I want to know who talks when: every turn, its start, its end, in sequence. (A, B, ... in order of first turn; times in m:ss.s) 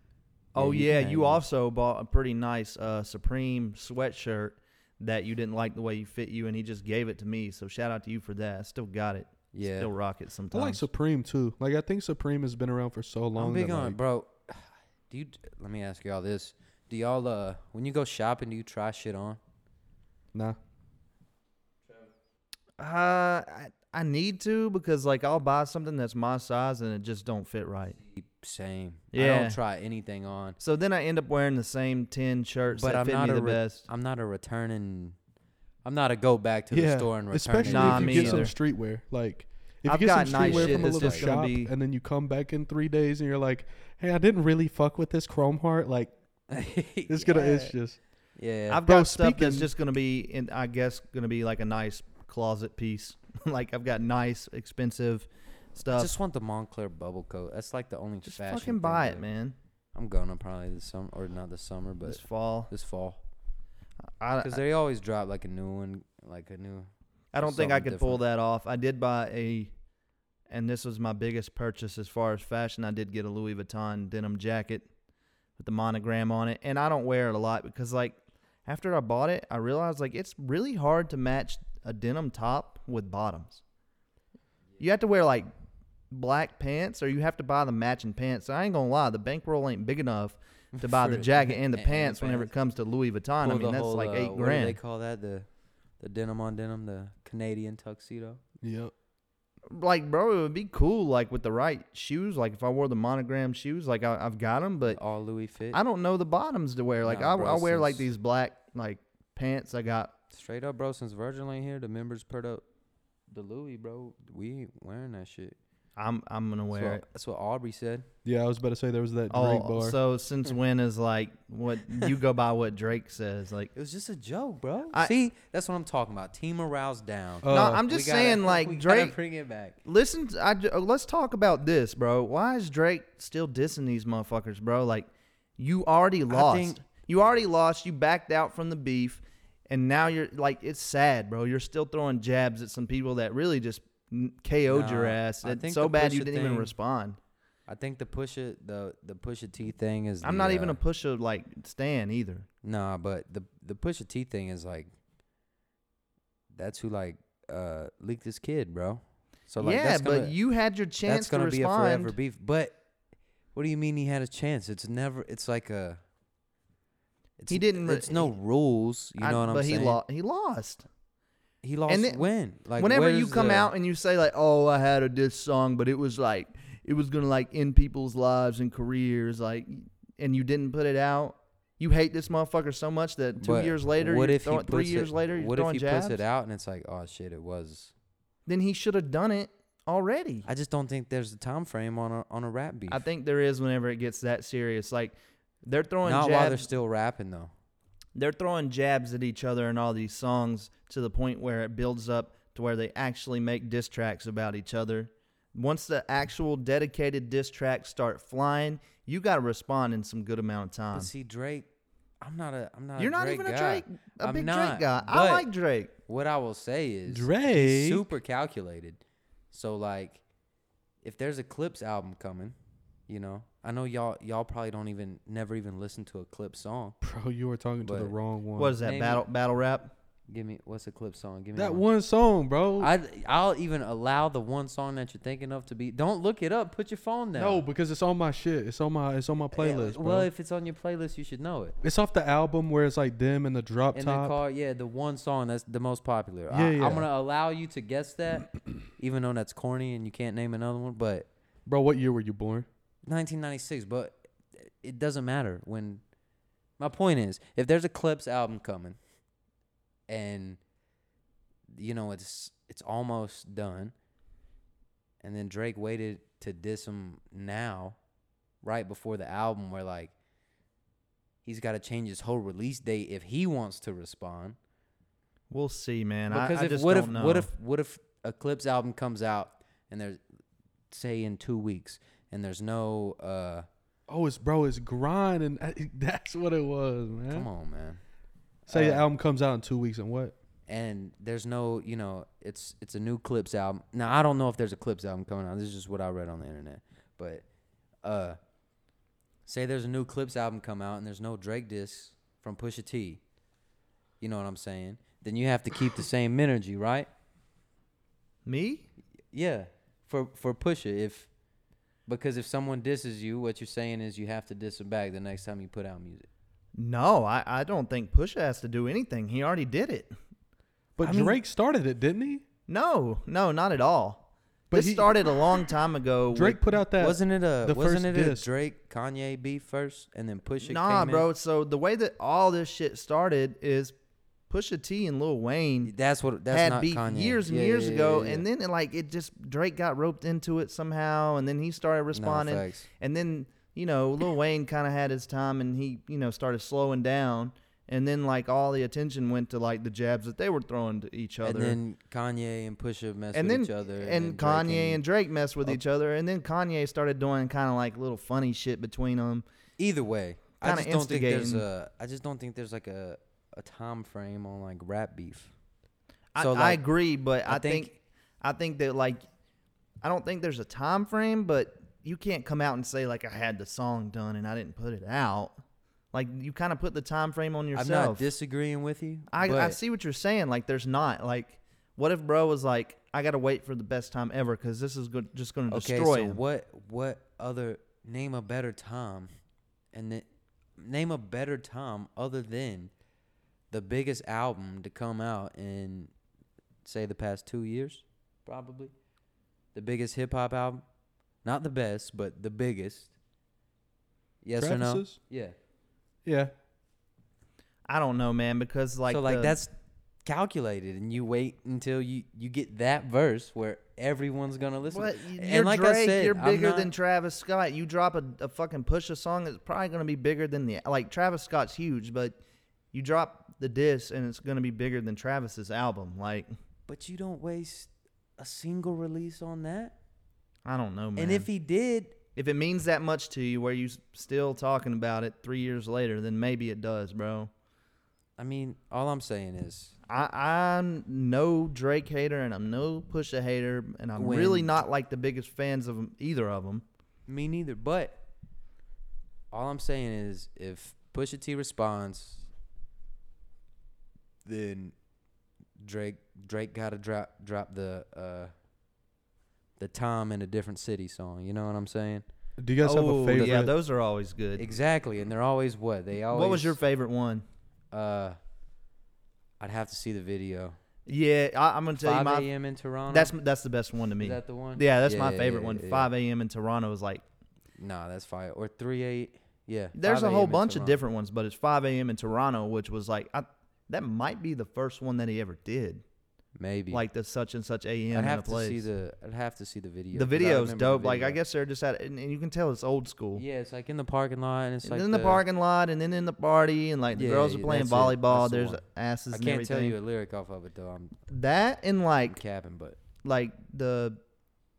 0:00.5-0:10.8 A
0:00.5-0:01.4 B
0:09.5-0:09.9 B
0:10.5-0:14.0 C
0:13.3-0:19.4 B
0:20.3-0:20.6 C
0:22.8-0:28.0 A
0:28.0-0:30.6 B
0:29.1-0:29.6 A
0:30.6-0:33.9 A
0:32.7-0:35.2 B
0:35.8-0:38.4 B
0:36.7-0:46.1 C
0:37.6-0:38.5 A
0:39.8-0:41.7 A
0:40.4-0:41.2 B
0:46.5-0:47.5 B
0:47.1-0:48.0 C
0:47.3-0:47.7 A
0:48.4-0:48.8 B
0:48.7-0:56.1 A
0:48.8-0:49.7 C
0:55.9-0:59.2 B
0:58.3-0:59.6 A
0:59.9-1:03.2 B
1:02.0-1:02.7 A
1:04.2-1:04.6 A
1:04.4-1:08.2 B
1:07.3-1:09.7 A
1:10.5-1:14.9 A
1:15.6-1:23.6 A
1:24.8-1:25.5 A
1:26.1-1:34.8 A
1:30.8-1:32.5 B
1:33.4-1:35.5 B
1:36.0-1:38.4 B
1:38.6-1:38.9 C
1:39.7-1:45.0 A
1:44.9-1:45.8 B
1:45.7-1:50.1 A
1:47.0-1:48.1 B
1:50.3-1:52.6 B
1:53.3-1:55.6 B
1:56.0-1:57.0 A
1:56.7-1:58.1 B
1:58.2-2:00.0 C
1:59.3-2:03.7 A
2:03.7-2:09.8 B
2:07.4-2:07.8 C
2:07.5-2:09.2 A
2:09.8-2:27.2 A
2:16.3-2:16.8 B
2:24.7-2:26.7 B
2:27.7-2:30.8 B
2:30.2-2:32.5 A
2:32.6-2:34.9 B
2:36.5-2:40.3 B
2:39.6-2:42.1 A
2:41.0-2:42.8 B
2:43.5-2:46.0 B
2:47.4-2:50.0 B
2:47.5-2:48.3 A
2:49.2-2:50.8 A
2:51.6-2:53.7 B
2:51.9-3:06.2 A
3:03.4-3:07.9 B
3:08.4-3:10.4 A
3:10.4-3:13.0 B
3:12.9-3:16.7 A
3:16.0-3:17.5 B
3:18.1-3:31.1 A
3:30.9-3:31.7 B
3:32.2-3:35.5 B
3:33.0-3:35.9 A
3:36.1-3:39.0 B
3:37.1-3:38.1 C
3:39.5-3:40.2 B
3:41.0-3:42.5 B
3:43.1-3:47.0 B
3:47.0-3:48.8 C
3:47.8-3:48.1 B
3:48.6-3:49.9 A
3:48.8-3:49.2 B
3:50.3-3:51.8 B
3:51.5-3:52.9 C
3:52.8-3:57.6 B
3:57.4-4:00.3 C
3:59.5-4:01.8 B
4:01.8-4:04.4 C
4:03.9-4:11.3 B
4:06.5-4:07.1 C
4:11.6-4:12.7 C
4:13.0-4:16.0 B
4:16.8-4:19.0 B
4:20.1-4:20.6 B
4:21.7-4:23.9 B
4:25.2-4:28.0 B
4:28.6-4:30.1 B
4:31.4-4:34.6 B
4:35.5-4:37.5 A
4:36.3-4:40.2 B
4:40.9-4:43.7 B
4:44.1-4:47.5 C
4:47.3-4:48.0 B
4:48.6-4:49.0 B
4:48.7-4:50.3 C
4:50.7-4:57.4 B
4:58.0-4:58.4 B
4:59.4-5:03.2 B
5:04.2-5:07.1 B
5:08.4-5:08.8 A
5:09.3-5:11.3 B
5:12.1-5:16.3 B
5:16.7-5:20.1 A
5:21.0-5:22.4 C
5:21.0-5:21.4 B
5:22.7-5:26.7 A
5:24.7-5:25.1 C
5:26.3-5:28.5 C
5:27.0-5:31.3 B
5:30.6-5:33.9 A
5:34.5-5:35.9 A
5:35.8-5:38.4 B
5:36.5-5:51.8 A
5:42.1-5:42.8 B
5:51.4-5:55.0 B
5:53.3-5:59.4 A
5:59.8-6:05.5 B
6:00.6-6:01.6 A
6:06.3-6:09.2 A
6:06.4-6:06.8 B
6:07.4-6:07.9 B
6:10.0-6:15.5 A
6:16.1-6:18.3 A
6:17.7-6:19.8 B
6:19.3-6:26.4 A
6:25.7-6:29.3 B
6:29.9-6:30.2 B
6:30.8-6:32.9 B
6:33.7-6:36.1 B
6:36.8-6:38.9 B
6:39.7-6:40.8 B
6:41.4-6:43.1 B
6:44.4-6:45.5 B
6:44.6-6:45.2 C
6:46.2-6:46.5 C
6:47.9-6:49.6 A
6:49.1-6:49.7 B
6:50.2-6:56.9 B
6:54.9-7:02.4 A
7:02.9-7:06.5 A
7:06.9-7:09.9 B
7:10.6-7:11.5 A
7:11.2-7:12.1 B
7:12.4-7:17.5 A
7:18.4-7:19.9 B
7:20.1-7:26.8 A
7:24.2-7:24.8 B
7:27.3-7:28.2 B
7:29.5-7:32.5 B
7:34.4-7:34.9 B
7:35.8-7:38.5 B
7:39.8-7:42.2 B
7:42.6-7:43.7 C
7:42.8-7:44.6 A
7:44.6-7:46.8 B
7:46.3-7:47.4 A
7:47.9-7:48.4 B
7:49.6-7:50.8 B
7:51.1-7:52.5 A
7:52.0-7:53.3 B
7:53.1-7:57.2 A
7:54.2-7:56.1 B
7:57.8-8:01.0 B
7:59.9-8:06.0 A
8:06.6-8:07.0 B
8:06.9-8:08.8 A
8:08.1-8:11.4 B
8:10.1-8:13.4 A
8:13.3-8:15.4 B
8:14.8-8:20.0 A
8:17.1-8:21.2 B
8:21.3-8:22.4 A
8:22.3-8:23.0 B
8:23.2-8:24.2 A